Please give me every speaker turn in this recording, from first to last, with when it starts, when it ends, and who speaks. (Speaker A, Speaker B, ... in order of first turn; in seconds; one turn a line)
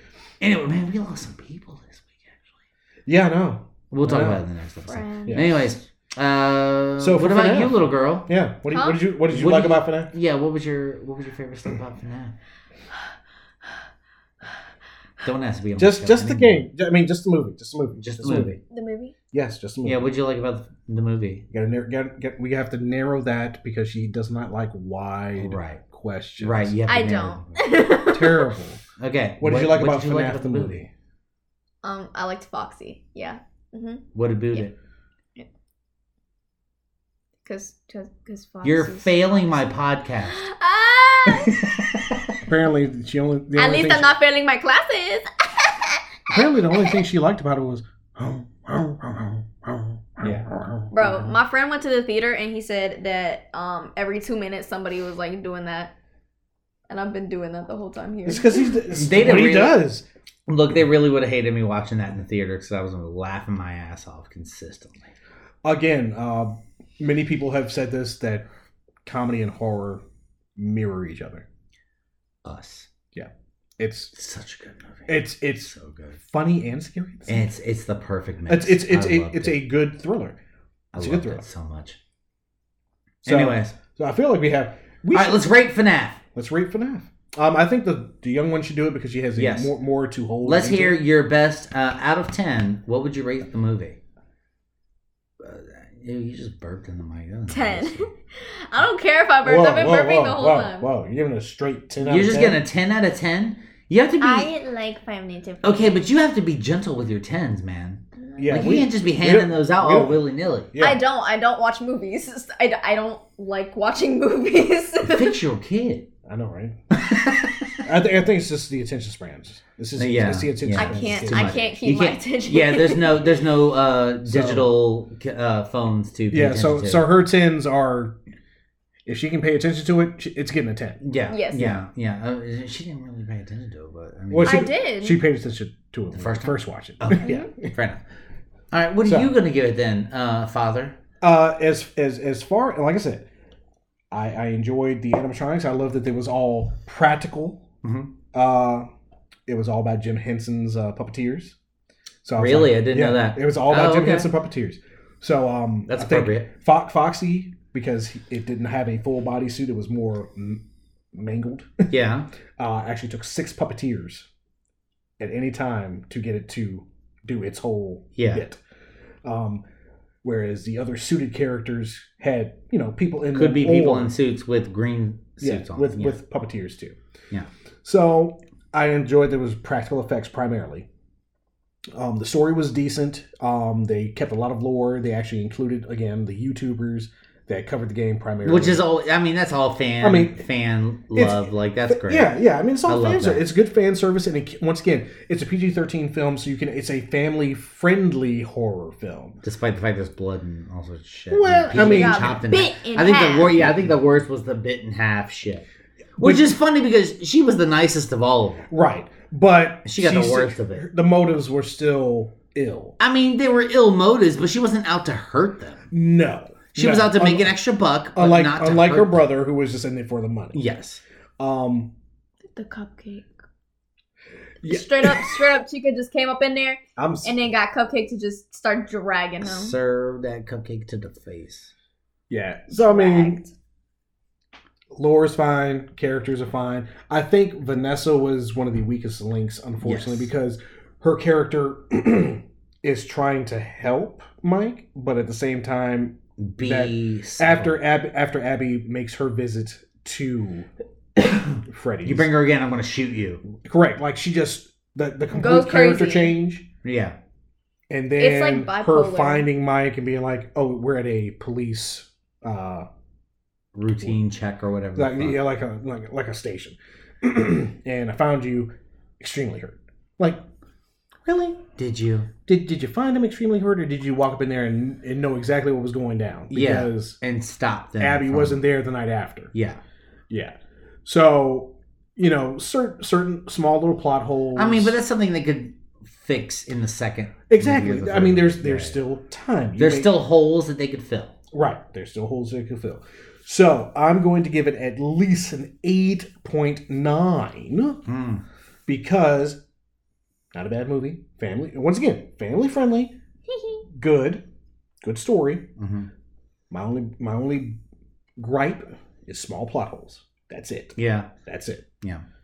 Speaker A: 0.4-2.4
Speaker B: 3.1-4.4
Speaker A: 3.9-8.3
Speaker C: 4.9-5.8
Speaker B: 5.3-5.6
Speaker B: 7.0-10.1
Speaker C: 8.7-9.0
Speaker A: 9.3-12.3
Speaker A: 15.2-16.7
Speaker B: 15.8-18.6
Speaker A: 18.0-18.6
Speaker C: 18.7-19.1
Speaker B: 19.3-20.1
Speaker A: 19.8-21.5
Speaker B: 21.5-26.8
Speaker A: 25.4-25.8
Speaker A: 26.4-27.6
Speaker C: 26.9-28.5
Speaker B: 28.0-28.8
Speaker A: 29.0-30.8
Speaker B: 29.4-30.9
Speaker C: 31.8-34.7
Speaker A: 34.1-34.7
Speaker C: 37.5-39.4
Speaker A: 38.6-40.4
Speaker C: 40.3-41.6
Speaker A: 41.3-42.4
Speaker B: 42.4-44.1
Speaker C: 43.5-47.0
Speaker B: 46.3-51.4
Speaker A: 50.2-50.5
Speaker C: 50.9-55.9
Speaker C: 56.9-58.8
Speaker B: 58.2-60.0
Speaker A: 58.9-59.8
Speaker A: 60.5-65.1
Speaker B: 65.6-68.5
Speaker B: 69.0-70.0
Speaker B: 70.6-71.5
Speaker A: 72.5-72.9
Speaker B: 73.1-74.1
Speaker A: 74.1-76.2
Speaker B: 75.1-77.5
Speaker A: 77.3-79.6
Speaker B: 78.5-80.4
Speaker A: 80.9-82.0
Speaker B: 81.0-81.5
Speaker B: 83.2-85.5
Speaker A: 83.2-83.8
Speaker A: 85.1-86.2
Speaker B: 86.3-91.0
Speaker A: 89.4-89.7
Speaker A: 90.4-94.0
Speaker A: 95.4-98.1
Speaker C: 97.5-98.1
Speaker C: 98.7-100.9
Speaker B: 99.4-102.6
Speaker A: 102.0-104.5
Speaker C: 104.2-105.9
Speaker A: 105.6-110.7
Speaker C: 108.2-108.8
Speaker B: 108.4-110.2
Speaker B: 110.7-111.0
Speaker C: 110.8-115.4
Speaker A: 115.0-116.1
Speaker B: 116.3-116.8
Speaker A: 116.9-117.8
Speaker B: 117.8-121.6
Speaker A: 120.0-127.1
Speaker C: 120.8-123.2
Speaker B: 124.2-124.7
Speaker B: 126.3-128.2
Speaker B: 129.1-131.0
Speaker A: 131.0-134.7
Speaker C: 131.3-131.8
Speaker B: 134.3-137.7
Speaker C: 134.4-135.2
Speaker A: 136.1-138.0
Speaker C: 137.2-137.5
Speaker A: 138.7-141.0
Speaker B: 139.0-139.3
Speaker B: 141.2-143.3
Speaker B: 144.1-147.7
Speaker A: 147.8-148.1
Speaker B: 148.3-148.9
Speaker B: 149.5-151.6
Speaker B: 152.2-161.9
Speaker A: 152.4-154.3
Speaker A: 155.9-156.5
Speaker A: 161.9-162.3
Speaker B: 162.6-164.3
Speaker B: 165.2-168.6
Speaker A: 168.2-168.4
Speaker B: 169.2-169.6
Speaker B: 170.2-174.1
Speaker A: 173.3-176.2
Speaker B: 175.4-177.0
Speaker B: 177.8-180.9
Speaker B: 181.9-188.9
Speaker A: 188.4-192.3
Speaker B: 190.0-190.4
Speaker B: 191.1-199.4
Speaker A: 192.8-193.5
Speaker A: 199.4-205.7
Speaker B: 201.3-202.4
Speaker C: 201.7-203.8
Speaker A: 206.2-208.7
Speaker B: 206.2-206.5
Speaker B: 208.7-213.0
Speaker A: 209.8-210.9
Speaker A: 213.0-215.9
Speaker B: 215.9-217.5
Speaker A: 216.7-219.3
Speaker B: 218.2-220.6
Speaker A: 220.5-221.0
Speaker B: 221.4-221.9
Speaker C: 222.5-223.3
Speaker B: 224.6-225.4
Speaker C: 224.7-229.8
Speaker B: 227.0-227.3
Speaker A: 229.4-231.7
Speaker B: 232.3-233.4
Speaker C: 232.7-233.5
Speaker B: 234.9-250.7
Speaker A: 239.8-240.3
Speaker A: 246.4-247.8
Speaker A: 251.2-253.4
Speaker B: 251.7-252.3
Speaker B: 253.6-256.7
Speaker C: 255.3-256.4
Speaker A: 256.8-257.2
Speaker B: 257.9-262.9
Speaker C: 258.2-259.5
Speaker A: 263.8-265.4
Speaker B: 265.0-270.4
Speaker B: 271.2-271.6
Speaker A: 271.8-272.3
Speaker B: 272.5-277.2
Speaker A: 276.5-278.6
Speaker B: 278.0-279.5
Speaker A: 279.5-279.8
Speaker B: 280.3-285.0
Speaker A: 284.6-289.0
Speaker B: 287.5-290.1
Speaker A: 289.8-291.4
Speaker B: 291.5-298.0
Speaker A: 298.1-298.4
Speaker B: 298.9-299.6
Speaker B: 300.5-303.2
Speaker C: 303.5-303.8
Speaker B: 303.9-304.4
Speaker B: 305.0-305.7
Speaker A: 305.8-306.1
Speaker B: 306.7-307.8
Speaker B: 308.4-311.9
Speaker A: 311.0-311.3